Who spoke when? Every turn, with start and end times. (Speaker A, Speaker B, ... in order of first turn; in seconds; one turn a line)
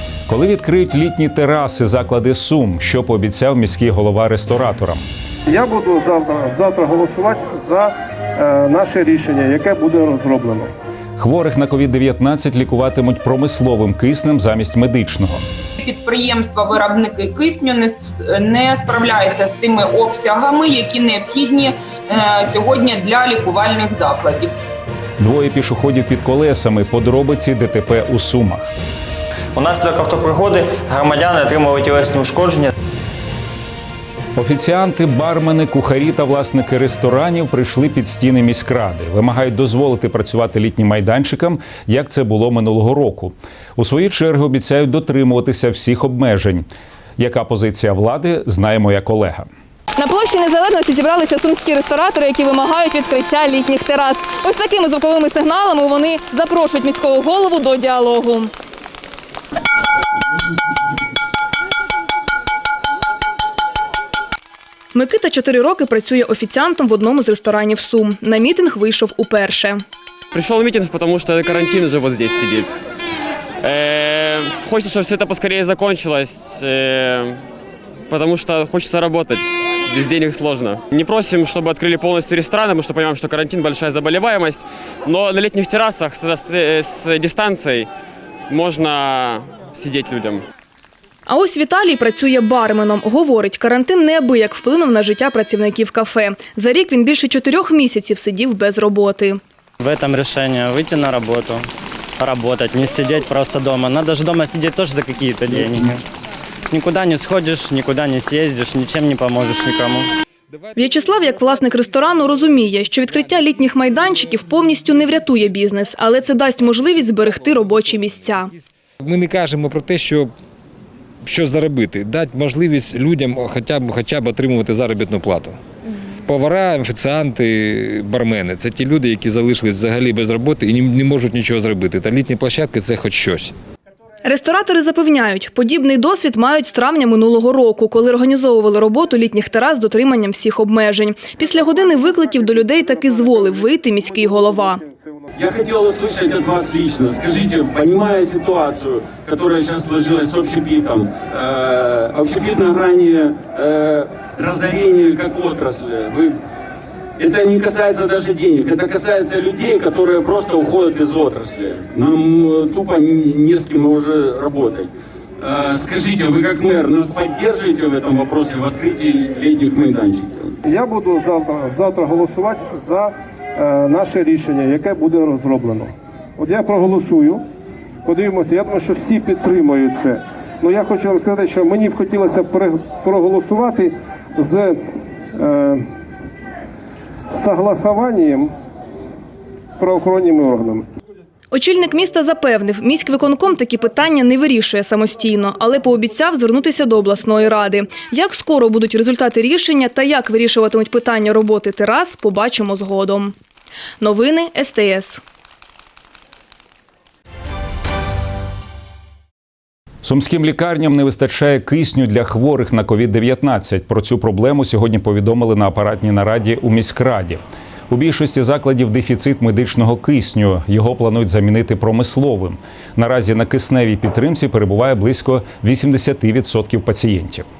Speaker A: 0.3-5.0
Speaker B: 5.5-10.7
Speaker A: 11.2-15.4
Speaker C: 15.8-24.5
Speaker A: 25.2-28.7
Speaker D: 29.5-32.7
Speaker A: 34.4-46.6
Speaker A: 47.2-49.5
Speaker E: 64.9-69.8
Speaker F: 70.3-72.7
Speaker F: 73.6-77.4
Speaker F: 78.1-87.9
Speaker F: 88.5-90.4
Speaker E: 91.3-99.4
Speaker G: 99.8-101.7
Speaker G: 102.2-106.0
Speaker G: 106.7-110.1
Speaker E: 110.8-118.5
Speaker H: 119.0-120.3
Speaker H: 121.2-125.6
Speaker H: 126.1-133.5
Speaker E: 134.2-144.8
Speaker B: 141.6-145.3
Speaker I: 145.3-156.3
Speaker I: 157.2-170.6
Speaker B: 170.7-177.4
Speaker B: 178.1-184.7
Speaker B: 185.4-185.8
Speaker B: 187.3-188.5
Speaker B: 189.8-190.8
Speaker E: 191.5-203.3
Speaker E: 204.0-205.2
Speaker A: 210.0-227.4